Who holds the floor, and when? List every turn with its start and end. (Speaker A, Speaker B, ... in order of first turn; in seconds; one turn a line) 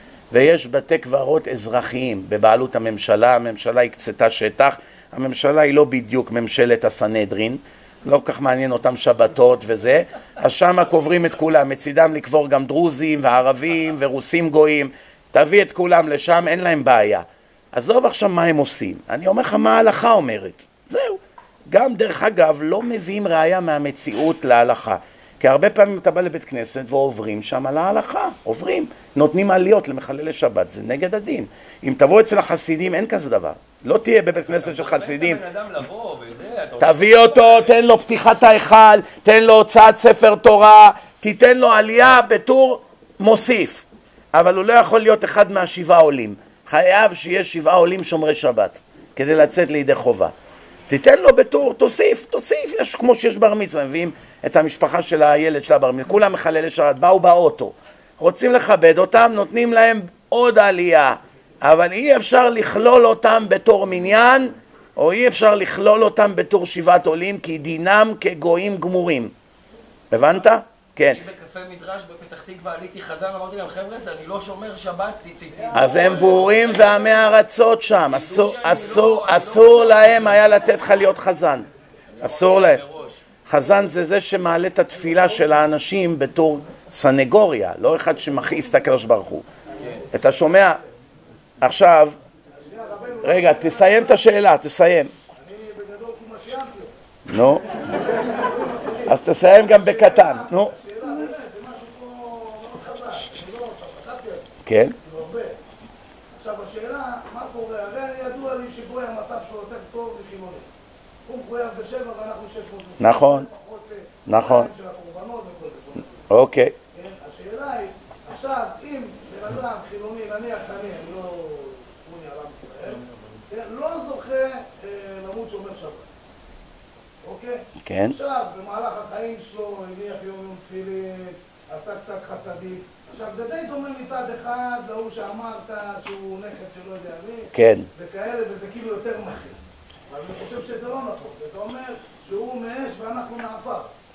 Speaker A: 0.3-35.4
Speaker B: 34.5-37.8
Speaker A: 36.8-50.3
Speaker A: 50.9-69.3
Speaker A: 70.1-71.2
Speaker B: 71.0-77.4
Speaker C: 75.7-76.1
Speaker A: 75.7-81.7
Speaker B: 77.9-80.4
Speaker B: 82.1-83.2
Speaker A: 82.2-82.8
Speaker A: 83.5-89.5
Speaker B: 89.8-90.0
Speaker A: 90.1-90.8
Speaker A: 91.6-92.2
Speaker C: 92.5-94.3
Speaker A: 93.2-95.1
Speaker C: 95.3-96.9
Speaker A: 97.3-98.0
Speaker C: 97.7-104.5
Speaker A: 99.0-100.7
Speaker A: 104.7-105.0
Speaker C: 105.0-105.6
Speaker C: 106.3-110.7
Speaker C: 111.2-116.1
Speaker A: 113.0-113.5
Speaker A: 114.3-114.7
Speaker A: 116.3-116.7
Speaker C: 116.9-126.1
Speaker C: 127.2-143.9
Speaker A: 127.8-128.2
Speaker A: 137.5-137.9